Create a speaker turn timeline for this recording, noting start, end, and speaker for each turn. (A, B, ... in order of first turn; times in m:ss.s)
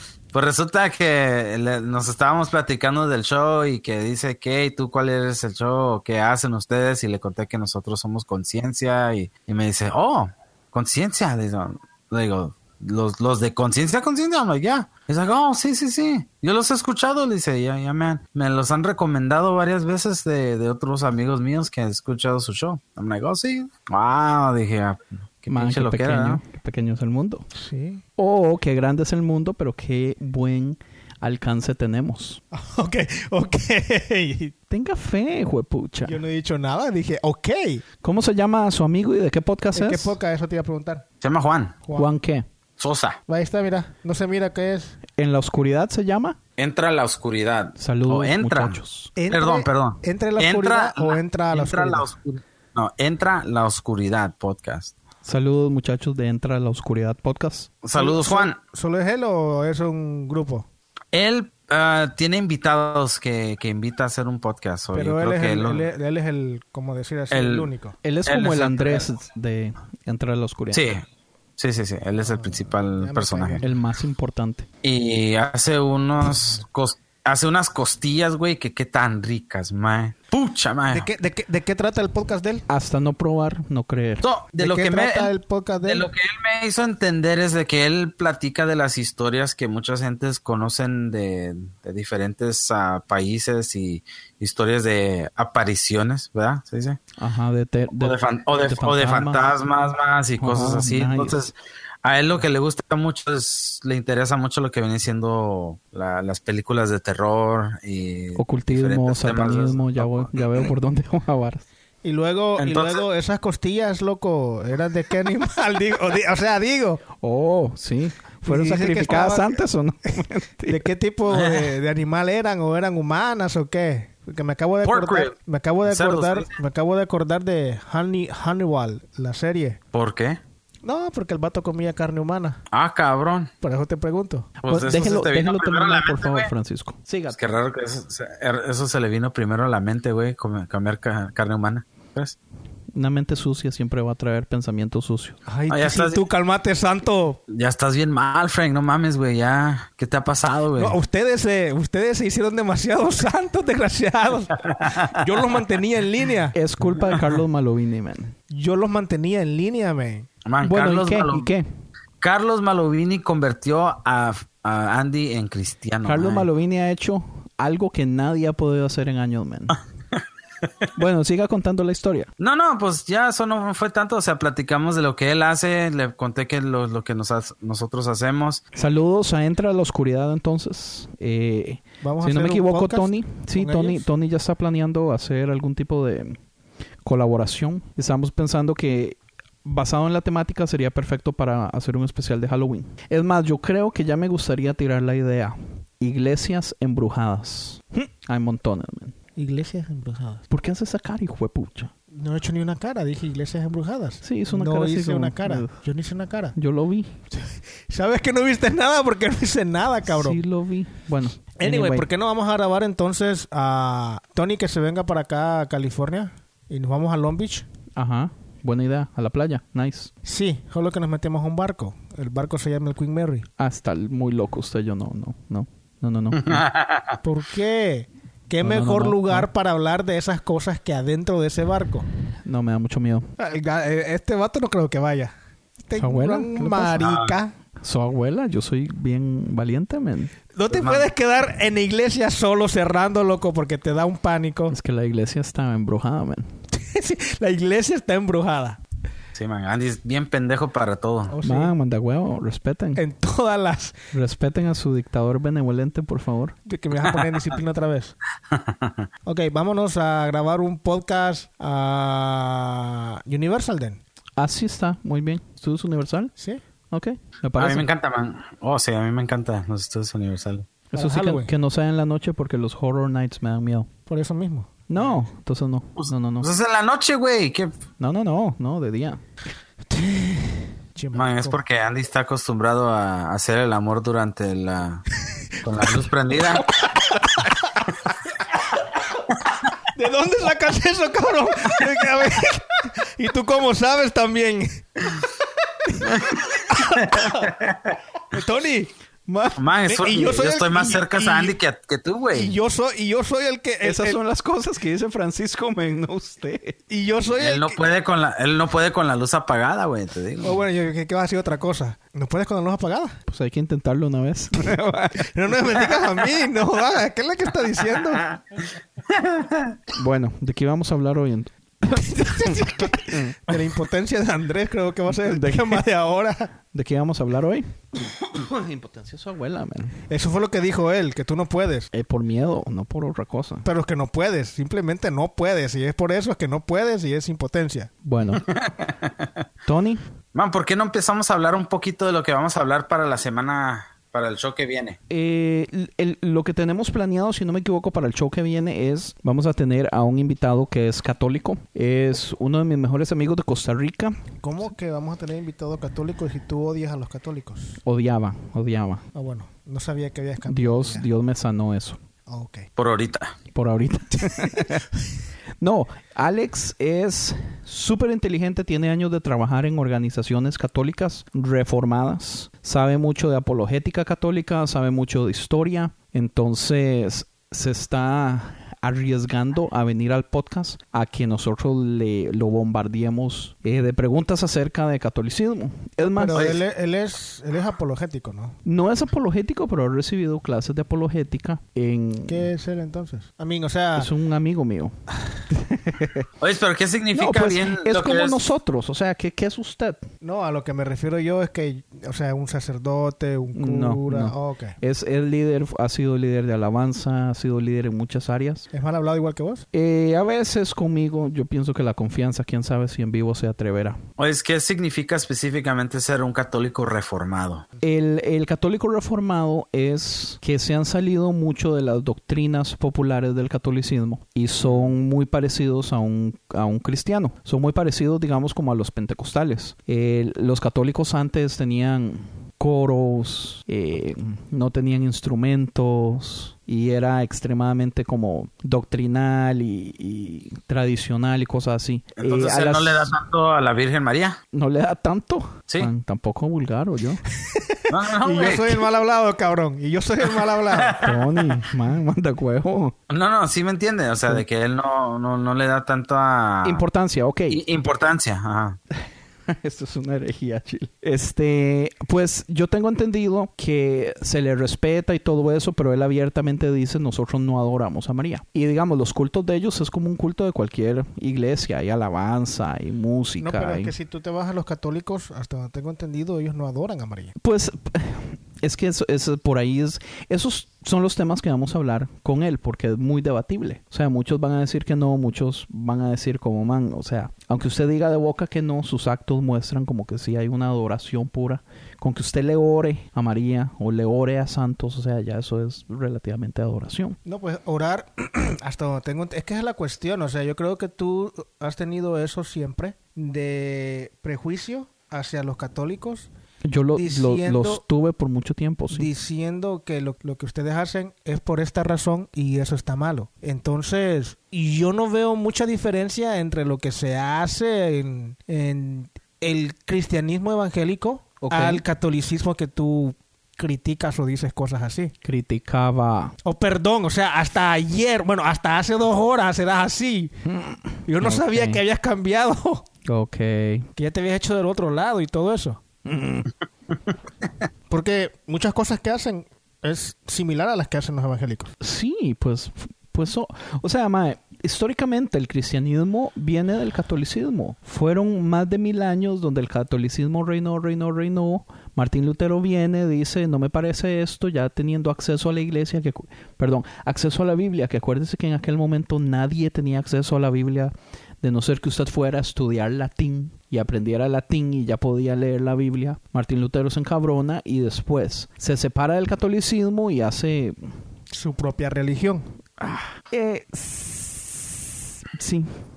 0:00.3-0:26.4 A
0:25.5-0:27.5 B
0:27.5-0:28.0 C
0:28.2-0:32.4 B
0:32.5-0:34.6 C
0:34.7-0:36.2 B
0:36.0-0:37.8 C
0:38.0-0:40.2 B
0:39.7-0:41.0 C
0:41.2-0:41.8 A
0:41.9-0:42.1 C
0:42.0-0:42.5 B
0:42.8-0:43.2 A
0:43.3-0:45.0 C
0:45.2-0:46.4 B
0:46.6-0:48.8 A
0:47.8-0:49.1 B
0:49.2-0:52.1 C
0:49.3-0:54.9 A
0:55.2-0:57.7 B
0:57.8-0:58.6 A
0:58.0-1:00.7 C
1:01.1-1:05.9 A
1:04.9-1:08.0 C
1:07.3-1:07.7 A
1:08.0-1:10.8 B
1:08.3-1:09.1 A
1:10.7-1:11.0 A
1:11.6-1:13.6 A
1:12.2-1:13.7 C
1:13.6-1:14.7 B
1:14.8-1:21.1 A
1:16.3-1:16.6 C
1:20.9-1:22.7 C
1:22.7-1:24.3 B
1:24.2-1:25.3 A
1:24.6-1:26.1 C
1:25.8-1:37.0 A
1:37.2-1:39.4 B
1:37.9-1:50.6 A
1:40.4-1:41.4 B
1:48.4-1:51.7 B
1:52.0-1:57.0 C
1:52.6-1:53.0 A
1:57.2-2:00.8 B
1:58.4-1:59.6 C
2:00.6-2:09.8 C
2:01.3-2:01.7 A
2:04.8-2:05.3 A
2:05.9-2:06.5 A
2:09.9-2:10.4 A
2:10.8-2:12.6 C
2:12.7-2:13.5 A
2:13.6-2:14.6 C
2:14.6-2:16.5 A
2:14.7-2:17.4 B
2:17.4-2:22.4 A
2:22.9-2:25.4 B
2:25.5-2:27.4 C
2:25.7-2:26.2 A
2:27.5-2:31.0 A
2:30.8-2:36.6 C
2:36.5-2:38.4 B
2:38.5-2:40.3 C
2:40.5-2:41.5 A
2:40.6-2:41.7 B
2:42.2-2:46.5 A
2:46.0-2:49.8 B
2:51.0-2:52.3 B
2:52.4-2:58.6 A
2:58.8-3:06.4 B
3:02.0-3:04.1 C
3:07.0-3:19.2 B
3:19.4-3:20.4 C
3:20.5-3:21.9 B
3:22.1-3:26.6 C
3:24.2-3:25.8 B
3:26.6-3:27.2 B
3:27.3-3:30.4 C
3:30.1-3:32.1 B
3:31.6-3:37.7 C
3:38.0-3:40.1 B
3:40.2-3:43.5 C
3:43.6-3:46.7 B
3:46.5-3:47.2 A
3:47.2-3:52.1 C
3:48.6-3:49.5 B
3:52.4-3:53.3 B
3:53.4-3:57.5 C
3:56.0-3:57.1 B
3:57.0-3:57.4 A
3:57.8-4:00.3 B
4:00.6-4:04.8 C
4:00.7-4:01.1 A
4:04.7-4:06.6 B
4:06.7-4:08.8 C
4:09.4-4:11.3 A
4:11.3-4:11.7 C
4:11.4-4:13.0 B
4:13.0-4:14.0 C
4:14.1-4:16.6 B
4:16.7-4:18.2 C
4:18.5-4:19.1 A
4:19.3-4:24.0 C
4:24.4-4:26.3 B
4:26.9-4:27.9 B
4:27.6-4:30.7 A
4:30.9-4:31.5 C
4:30.9-4:33.9 B
4:34.1-4:34.8 C
4:34.9-4:36.5 B
4:36.0-4:37.7 A
4:38.0-4:39.2 B
4:39.9-4:41.6 C
4:41.1-4:45.1 A
4:45.3-4:45.9 C
4:45.6-4:46.8 A
4:46.8-4:47.9 C
4:49.9-4:55.3 C
4:55.8-4:57.6 C
4:56.0-4:58.0 A
4:58.3-4:58.9 C
4:59.3-4:59.6 B
4:59.6-5:02.5 A
4:59.9-5:01.6 C
5:02.3-5:04.2 C
5:03.8-5:06.8 B
5:06.9-5:07.8 C
5:07.4-5:10.6 A
5:10.4-5:13.2 C
5:13.3-5:15.3 B
5:15.2-5:18.3 C
5:19.1-5:19.8 A
5:20.0-5:23.4 B
5:22.1-5:26.5 C
5:25.3-5:25.8 B
5:26.7-5:30.0 B
5:30.1-5:31.9 C
5:31.9-5:33.7 B
5:33.6-5:37.9 C
5:38.0-5:38.4 B
5:38.4-5:39.3 A
5:39.7-5:40.0 B
5:40.4-5:45.0 A
5:45.1-5:54.2 B
5:54.4-5:57.8 C
5:57.8-5:59.0 B
5:59.1-6:01.1 C
6:00.5-6:02.0 B
6:02.3-6:02.7 C
6:02.8-6:03.3 A
6:03.5-6:04.9 B
6:05.6-6:26.5 B
6:26.0-6:28.6 C
6:28.7-6:32.5 B
6:32.3-6:34.1 C
6:34.0-6:35.0 B
6:35.5-6:36.3 B
6:36.4-6:38.4 A
6:37.1-6:40.0 B
6:40.2-6:44.8 C
6:43.6-6:48.7 B
6:48.7-6:49.7 C
6:49.7-6:54.0 B
6:54.2-6:57.7 A
6:57.8-7:23.1 B
7:22.2-7:24.4 A
7:24.5-7:27.2 B
7:27.4-7:31.0 C
7:27.9-7:28.8 A
7:30.7-7:31.1 A
7:31.0-7:33.0 B
7:33.1-7:36.8 A
7:36.6-7:37.6 B
7:37.5-7:38.8 A
7:39.5-7:53.9 B
7:53.4-7:57.3 C
7:57.4-8:17.2 B
8:17.2-8:26.3 C
8:26.6-8:29.1 B
8:27.0-8:27.8 C
8:28.9-8:45.1 C
8:41.4-8:41.8 B
8:45.2-8:46.3 B
8:46.4-8:50.3 C
8:50.4-8:51.8 B
8:51.1-8:52.9 C
8:53.1-8:53.9 B
8:54.0-8:55.8 C
8:56.0-8:56.5 B
8:57.9-9:01.7 C
9:01.8-9:30.9 B
9:31.3-9:32.4 C
9:32.8-9:35.7 B